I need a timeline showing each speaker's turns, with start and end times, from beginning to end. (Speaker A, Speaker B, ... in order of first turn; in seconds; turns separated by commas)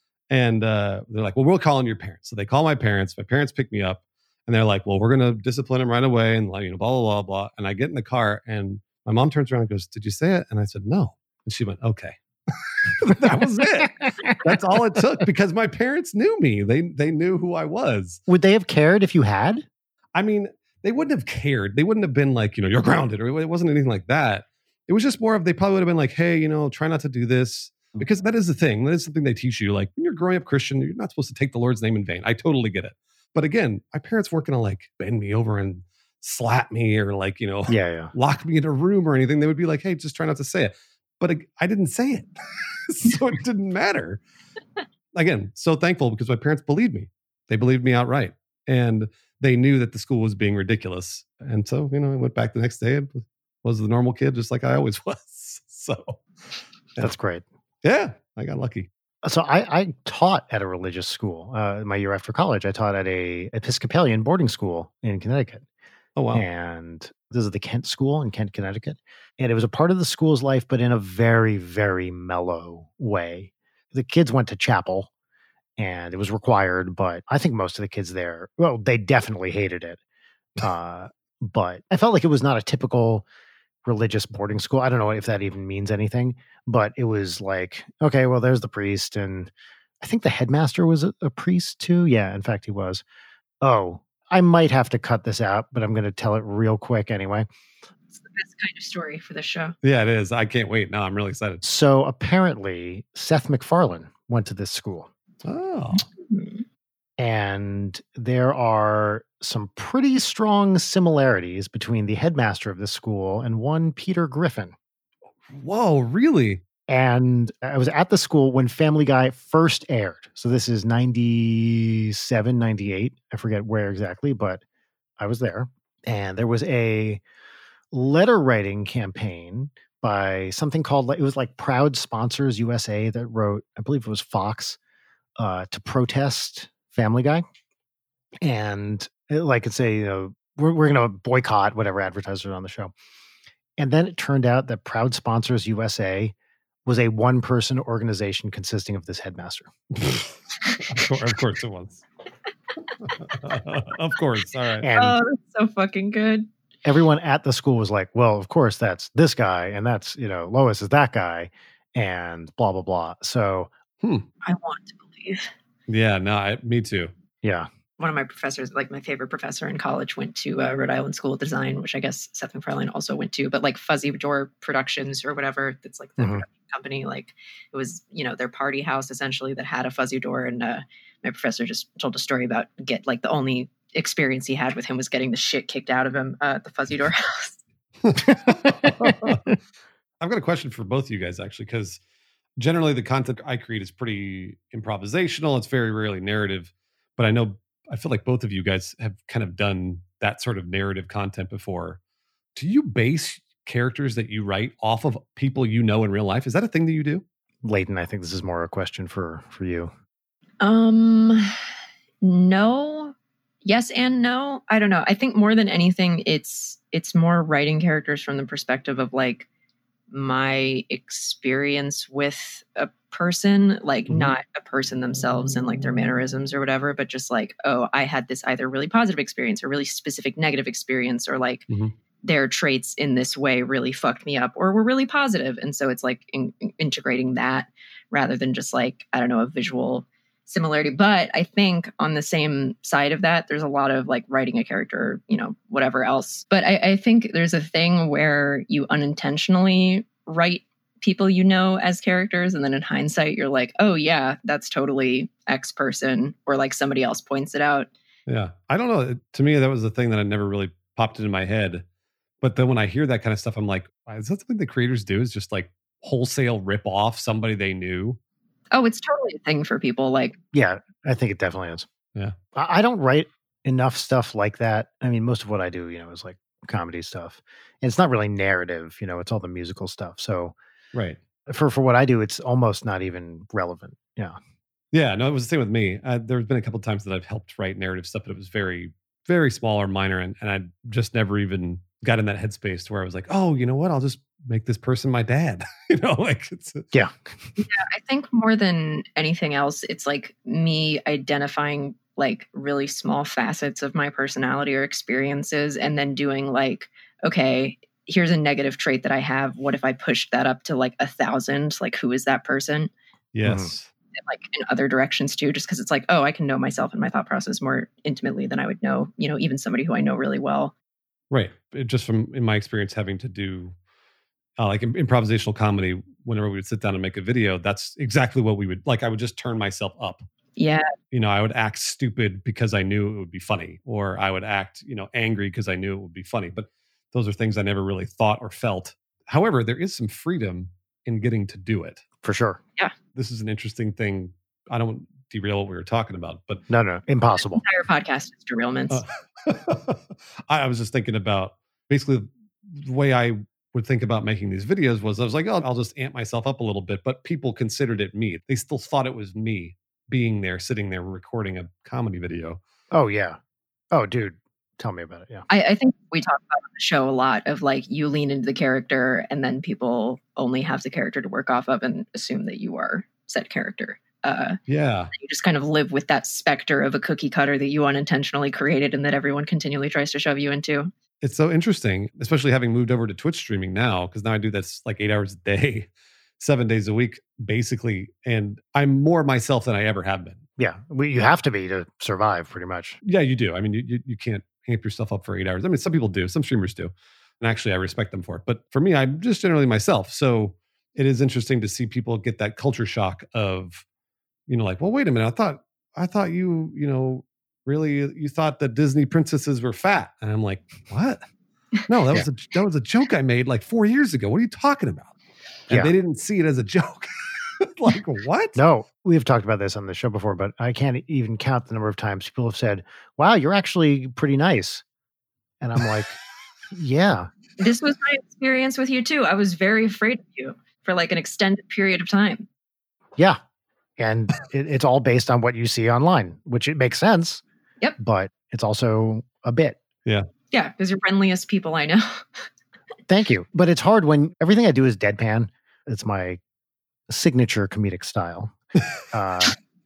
Speaker A: 0.3-12.2, Speaker A: 12.8-18.2, Speaker B: 18.3-19.6, Speaker A: 20.1-42.3, Speaker B: 37.7-38.1, Speaker A: 42.9-44.2, Speaker A: 45.1-56.2, Speaker B: 57.0-57.4, Speaker A: 57.8-58.9, Speaker B: 59.2-65.6, Speaker A: 66.2-66.4, Speaker B: 66.3-75.1, Speaker B: 75.8-80.0, Speaker B: 80.6-83.2, Speaker B: 83.8-93.0, Speaker B: 93.6-97.5, Speaker C: 98.2-99.8, Speaker A: 99.8-101.6, Speaker B: 101.6-105.1, Speaker A: 105.4-106.0, Speaker C: 106.3-106.6, Speaker B: 107.2-114.7, Speaker A: 115.5-116.6, Speaker B: 116.9-124.6, Speaker B: 125.2-127.2, Speaker B: 127.9-134.8, Speaker B: 135.4-137.4, Speaker B: 138.4-142.9, Speaker B: 143.8-146.3, Speaker B: 146.8-149.7, Speaker A: 149.9-150.3, Speaker A: 150.9-152.0, Speaker A: 153.2-154.9, Speaker B: 154.8-155.2, Speaker C: 154.9-156.5, Speaker B: 156.8-163.7, Speaker C: 164.4-165.5, Speaker A: 165.9-167.1, Speaker C: 168.0-187.6, Speaker B: 176.2-176.4, Speaker A: 188.0-189.4, Speaker B: 188.2-189.6, Speaker A: 190.2-192.0, Speaker A: 192.6-202.0, Speaker A: 202.6-207.2, Speaker B: 207.6-209.9, Speaker C: 210.6-211.5, Speaker C: 212.2-219.5, Speaker C: 220.1-231.6, Speaker A: 231.7-231.9, Speaker C: 232.2-257.9, Speaker A: 258.3-261.8, Speaker A: 262.4-268.2, Speaker C: 268.7-270.4, Speaker B: 270.5-271.9, Speaker B: 272.5-280.5, Speaker B: 281.5-284.4, Speaker A: 284.9-296.8, Speaker C: 297.6-312.9, Speaker A: 313.3-313.9, Speaker B: 313.4-313.7, Speaker C: 314.2-320.7, Speaker A: 321.3-323.7, Speaker A: 324.6-330.2, Speaker C: 330.6-330.9, Speaker A: 331.1-342.0, Speaker B: 342.2-342.6, Speaker A: 343.1-346.6, Speaker B: 346.7-347.6, Speaker C: 347.5-349.0, Speaker A: 348.9-362.6, Speaker B: 362.9-363.4, Speaker B: 363.9-365.4, Speaker C: 365.5-374.6, Speaker A: 374.7-375.1, Speaker C: 375.1-380.9, Speaker A: 381.2-385.9, Speaker A: 386.4-390.4, Speaker B: 390.6-393.0, Speaker A: 393.0-403.8, Speaker A: 404.5-411.2, Speaker A: 411.9-415.1, Speaker A: 415.7-417.1, Speaker A: 417.6-418.6, Speaker B: 418.6-424.8, Speaker B: 425.6-426.2, Speaker B: 426.7-427.3, Speaker C: 427.6-432.5, Speaker B: 434.0-437.4, Speaker B: 438.0-439.8, Speaker C: 440.5-442.2, Speaker B: 443.1-446.4, Speaker B: 447.1-448.5, Speaker B: 449.1-449.5